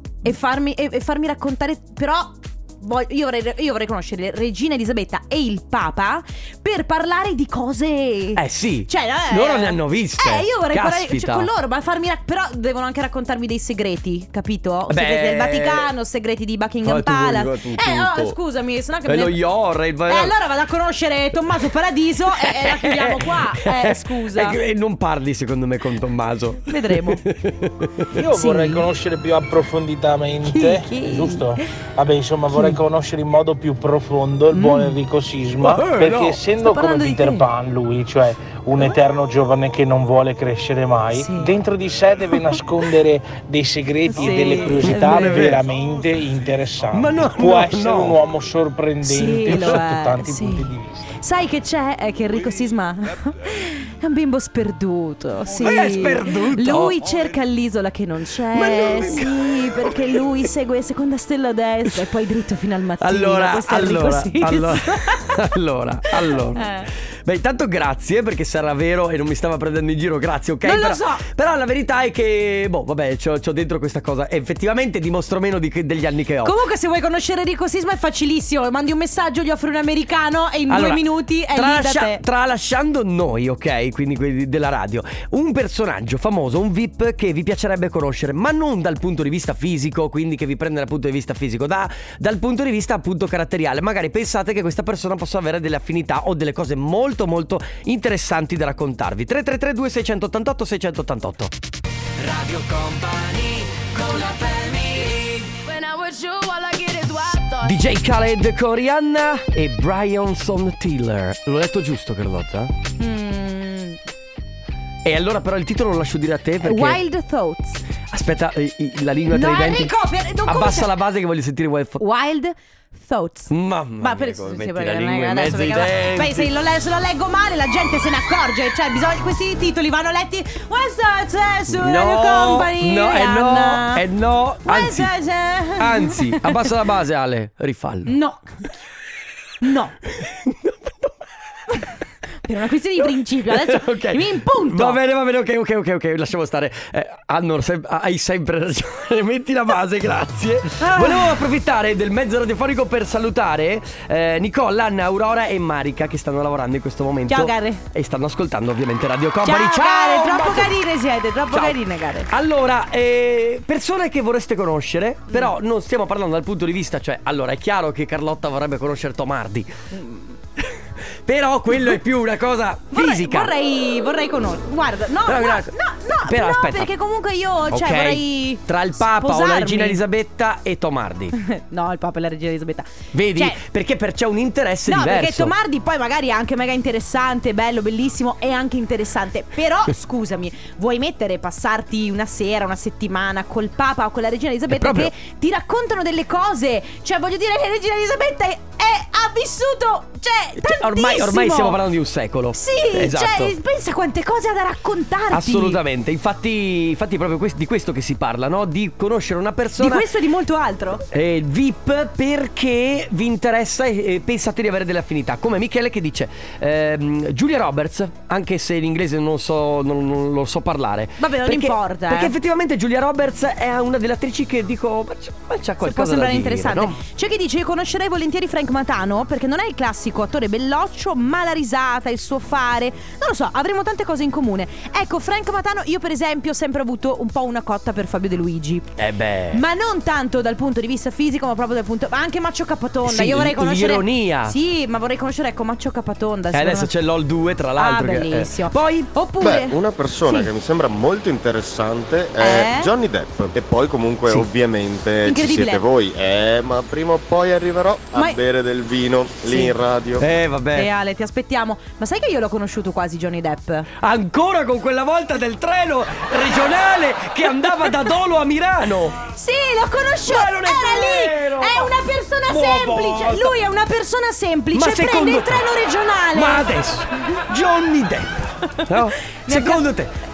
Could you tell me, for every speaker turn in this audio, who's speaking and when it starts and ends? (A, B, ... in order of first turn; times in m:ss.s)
0:00.2-0:19.4 A
0:08.4-0:11.5 B
0:14.9-0:15.9 B
0:16.8-0:18.4 B
0:19.0-0:20.4 B
0:20.1-0:24.6 A
0:22.3-0:28.1 B
0:26.7-0:27.2 A
0:28.1-0:51.1 C
0:28.3-0:28.9 A
0:30.4-0:31.6 A
0:32.5-0:32.8 A
0:34.5-0:34.9 A
0:35.6-0:36.4 B
0:36.6-0:37.5 A
0:41.1-0:41.5 A
0:44.1-0:45.5 A
0:44.7-0:45.7 B
0:46.9-0:48.2 B
0:49.0-1:05.4 A
0:49.5-0:49.8 B
0:55.5-0:57.2 B
0:58.5-1:00.2 B
1:03.0-1:16.6 B
1:06.2-1:06.9 A
1:10.6-1:11.2 A
1:16.4-1:22.2 A
1:20.7-1:41.5 B
1:42.2-1:47.8 D
1:47.6-1:52.7 B
1:53.0-1:54.0 A
1:55.0-1:57.0 B
1:56.6-1:57.8 A
1:58.1-1:59.9 B
1:59.3-2:00.9 A
2:00.5-2:02.0 B
2:02.0-2:14.0 A
2:03.5-2:06.5 B
2:11.7-2:15.1 B
2:14.6-2:16.7 A
2:15.8-2:18.2 B
2:18.1-2:18.4 A
2:19.6-2:20.0 A
2:20.1-2:21.2 B
2:22.4-2:25.0 A
2:23.0-2:40.8 B
2:30.8-2:31.4 A
2:37.3-2:37.8 A
2:39.4-2:42.3 A
2:41.5-2:49.7 B
2:49.9-2:50.3 A
2:50.6-2:53.5 B
2:52.9-3:00.0 A
2:55.2-2:56.9 B
2:57.7-3:01.4 B
3:01.4-3:03.6 A
3:03.1-3:05.5 B
3:04.9-3:21.8 A
3:14.7-3:15.1 B
3:20.6-3:23.6 B
3:22.5-3:25.8 A
3:25.3-3:30.1 B
3:29.8-3:31.0 A
3:31.1-3:47.0 B
3:41.2-3:42.3 A
3:45.8-3:58.9 A
3:59.0-3:59.6 B
3:59.5-4:06.9 A
4:03.0-4:04.6 B
4:06.5-4:09.1 B
4:07.8-4:10.5 A
4:09.4-4:20.2 E
4:12.4-4:12.9 A
4:15.2-4:15.8 A
4:19.5-4:19.7 A
4:20.2-4:20.9 B
4:20.8-4:23.9 A
4:24.0-4:29.2 B
4:29.3-4:36.7 A
4:30.2-4:33.6 B
4:34.7-4:35.7 B
4:36.3-4:40.2 B
4:38.8-4:39.9 A